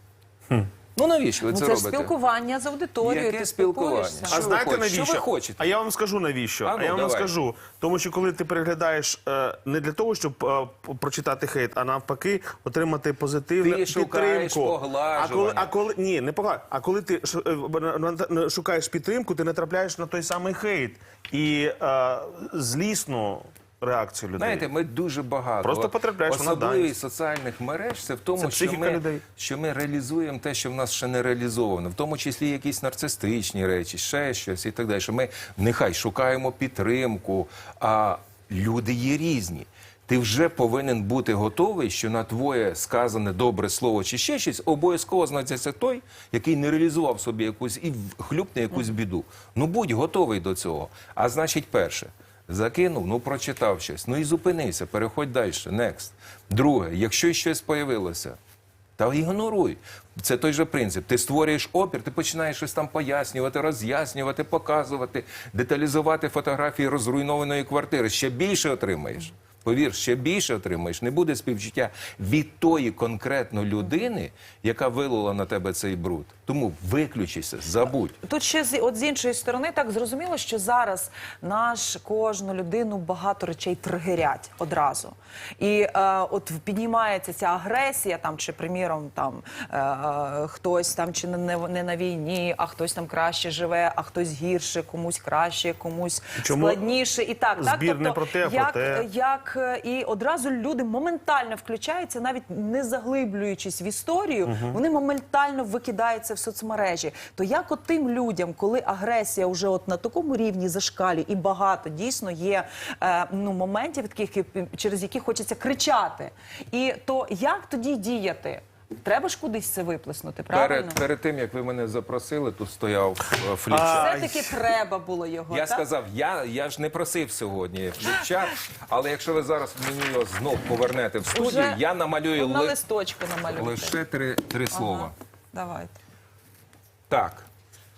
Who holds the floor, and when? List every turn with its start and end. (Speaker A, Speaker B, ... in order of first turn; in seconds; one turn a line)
Speaker A: 0.9-2.1
Speaker B: 1.5-4.5
Speaker A: 3.0-5.7
Speaker C: 4.3-24.7
Speaker A: 6.6-7.3
Speaker A: 13.6-15.7
Speaker A: 24.4-58.4
Speaker C: 25.6-26.9
Speaker C: 28.4-29.2
Speaker A: 59.0-78.2
Speaker B: 78.2-121.0
Speaker C: 96.4-96.8
Speaker C: 97.6-99.0
Speaker C: 104.5-104.8
Speaker A: 120.5-124.2
Speaker C: 123.7-124.5
Speaker B: 123.8-125.9
Speaker A: 125.5-132.8
Speaker B: 131.3-131.8
Speaker B: 132.3-134.0
Speaker A: 133.5-135.1
Speaker B: 134.7-135.9
Speaker A: 137.1-137.4